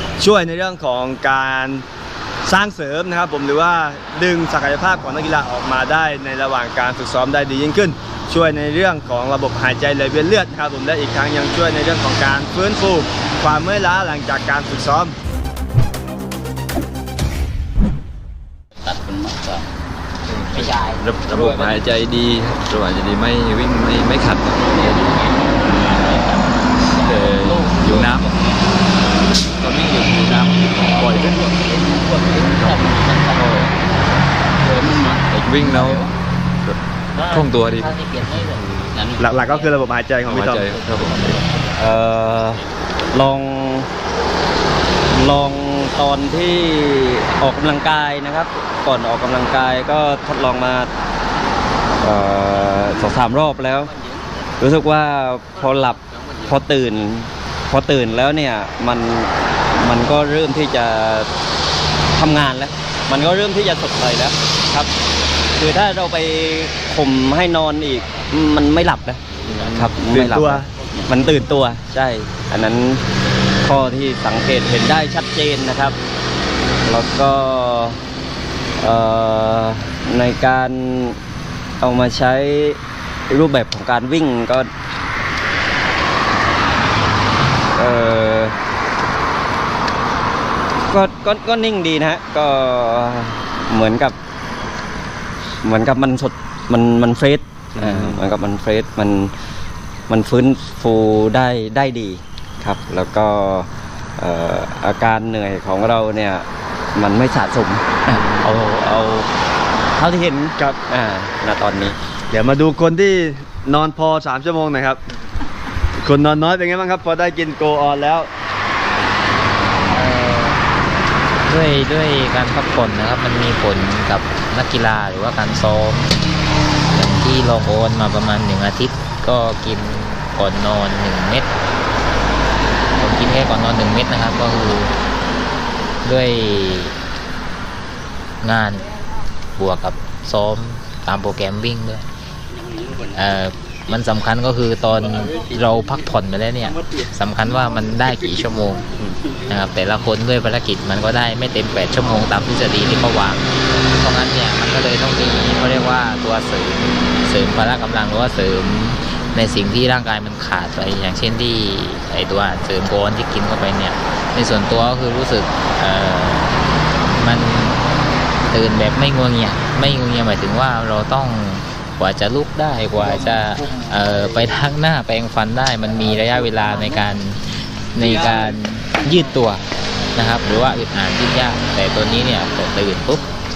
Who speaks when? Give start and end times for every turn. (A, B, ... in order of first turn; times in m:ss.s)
0:00.2-0:01.8 A
0:02.4-0:15.1 A
0:18.8-0:19.6 B
0:20.3-0:25.9 C
0:20.5-0:21.8 B
0:24.6-0:28.5 B
0:26.9-0:28.3 C
0:29.6-0:31.5 C
0:30.3-0:33.7 B
0:33.3-0:33.7 C
0:34.6-0:36.1 B
0:35.4-0:36.1 C
0:37.2-0:39.7 B
0:37.2-0:38.0 C
0:39.2-0:40.7 A
0:40.2-0:41.4 C
0:41.8-0:43.9 D
0:45.1-0:50.9 D
0:52.0-0:53.9 D
0:54.6-1:01.3 D
1:02.1-1:04.9 D
1:05.6-1:13.0 D
1:09.5-1:09.8 B
1:09.9-1:10.7 A
1:13.6-1:16.0 D
1:16.8-1:18.0 D
1:18.8-1:21.2 D
1:21.8-1:22.8 D
1:23.3-1:24.7 D
1:27.7-1:28.6 D
1:30.9-1:34.2 D
1:35.6-1:39.3 D
1:40.1-1:49.3 D
1:49.9-1:52.0 D
1:52.3-1:55.0 A
1:56.0-1:58.3 A
1:59.9-2:00.6 E
2:01.4-2:06.1 E
2:06.9-2:11.5 E
2:13.0-2:14.9 E
2:16.0-2:17.0 E
2:18.4-2:18.9 E
2:19.6-2:22.0 E
2:23.1-2:28.8 E
2:29.5-2:46.5 E
2:47.1-2:47.8 E
2:48.5-2:59.6 E
3:00.1-3:03.2 E